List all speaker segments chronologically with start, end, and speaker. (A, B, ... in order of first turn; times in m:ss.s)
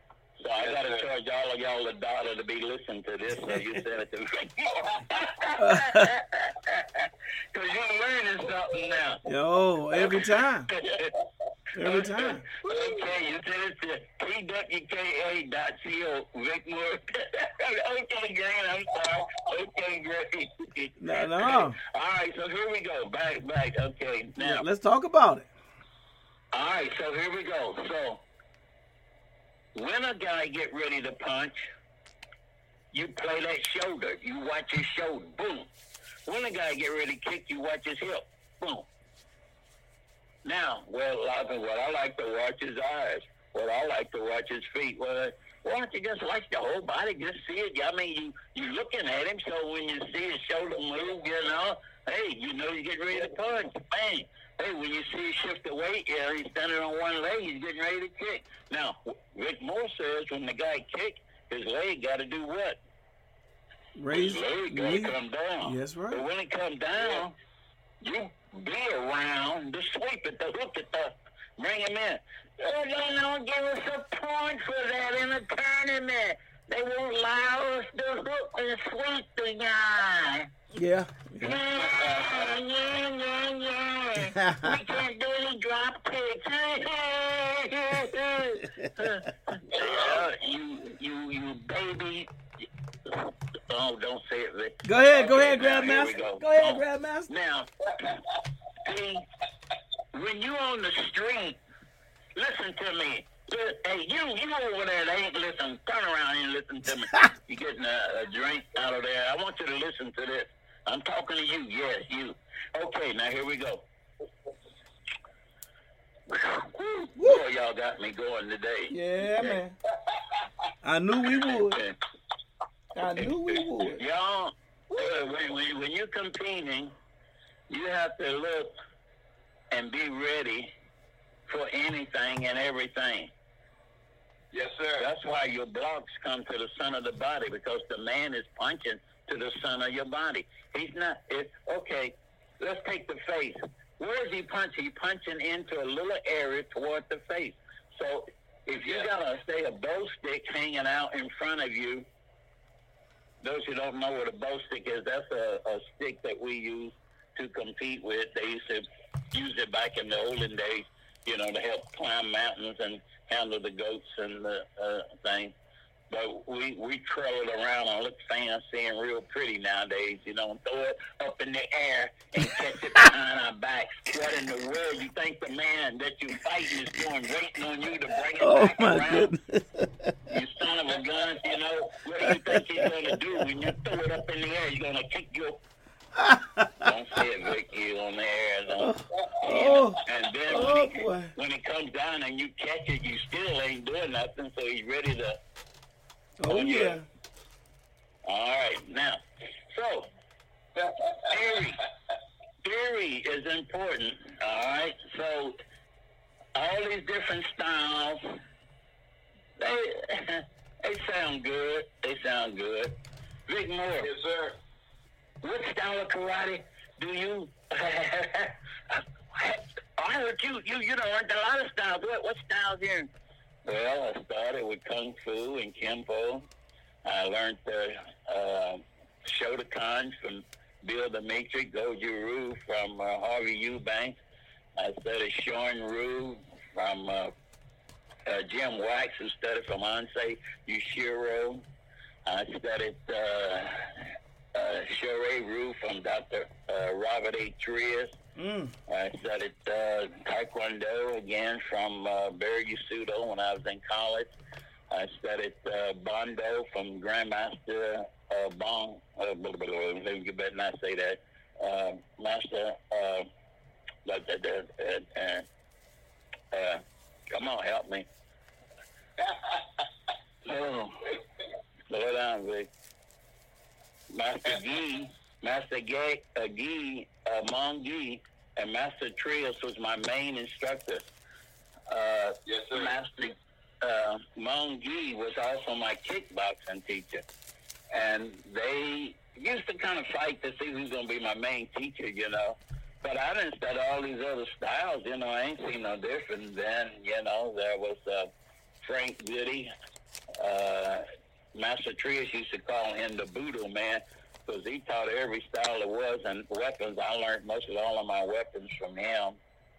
0:00.4-0:09.2 A
0:00.6-0:01.0 B
0:05.6-0:06.1 C
0:09.2-0:10.7 C
0:09.9-0:11.2 A
0:11.7-0:12.4 C
0:11.8-0:24.6 A
0:12.7-0:13.0 B
0:21.0-0:21.8 C
0:24.4-0:25.5 C
0:26.5-0:28.2 A
0:29.7-0:31.7 A
0:32.9-0:35.7 A
0:36.2-0:38.9 A
0:40.4-1:02.8 A
1:03.9-1:06.2 C
1:04.1-1:07.3 A
1:08.0-1:20.5 A
1:20.7-1:21.6 C
1:21.4-1:32.3 A
1:21.9-1:22.5 B
1:24.4-1:24.7 C
1:29.8-1:30.2 B
1:33.1-1:38.2 A
1:34.8-1:37.3 C
1:38.8-1:39.2 A
1:40.1-1:41.6 A
1:42.3-1:53.8 A
1:56.3-1:59.6 A
1:57.2-1:57.4 C
1:58.9-1:59.7 C
2:00.8-2:01.8 C
2:01.3-2:02.0 A
2:02.9-2:04.0 C
2:03.2-2:06.9 A
2:07.7-2:08.7 A
2:09.7-2:10.7 A
2:11.5-2:13.3 A
2:14.5-2:15.1 B
2:15.0-2:32.0 A
2:28.8-2:29.1 B
2:33.4-2:45.5 A
2:46.1-2:59.3 A
2:58.4-3:00.1 C
3:00.3-3:05.6 A
3:02.2-3:02.9 C
3:06.1-3:06.8 C
3:06.8-3:15.4 A
3:08.8-3:11.3 C
3:16.4-3:17.0 C
3:16.5-3:17.0 A
3:18.2-3:20.1 A
3:20.8-3:21.2 B
3:21.2-3:21.8 A
3:22.6-3:25.6 A
3:26.5-3:28.3 A
3:29.6-3:32.9 A
3:33.5-3:34.1 A
3:34.0-3:34.6 B
3:35.4-3:43.1 A
3:43.6-3:46.5 A
3:47.0-3:54.2 A
3:54.8-3:57.3 A
3:58.2-4:01.6 A
4:02.2-4:08.2 A
4:08.4-4:08.7 C
4:08.9-4:14.3 A
4:14.9-4:23.3 A
4:24.0-4:25.4 A
4:26.5-4:28.1 A
4:30.4-4:31.2 A
4:31.9-4:32.7 A
4:34.1-4:41.1 A
4:41.9-4:47.2 A
4:42.4-4:42.9 B
4:47.9-4:59.7 A
5:00.4-5:09.4 A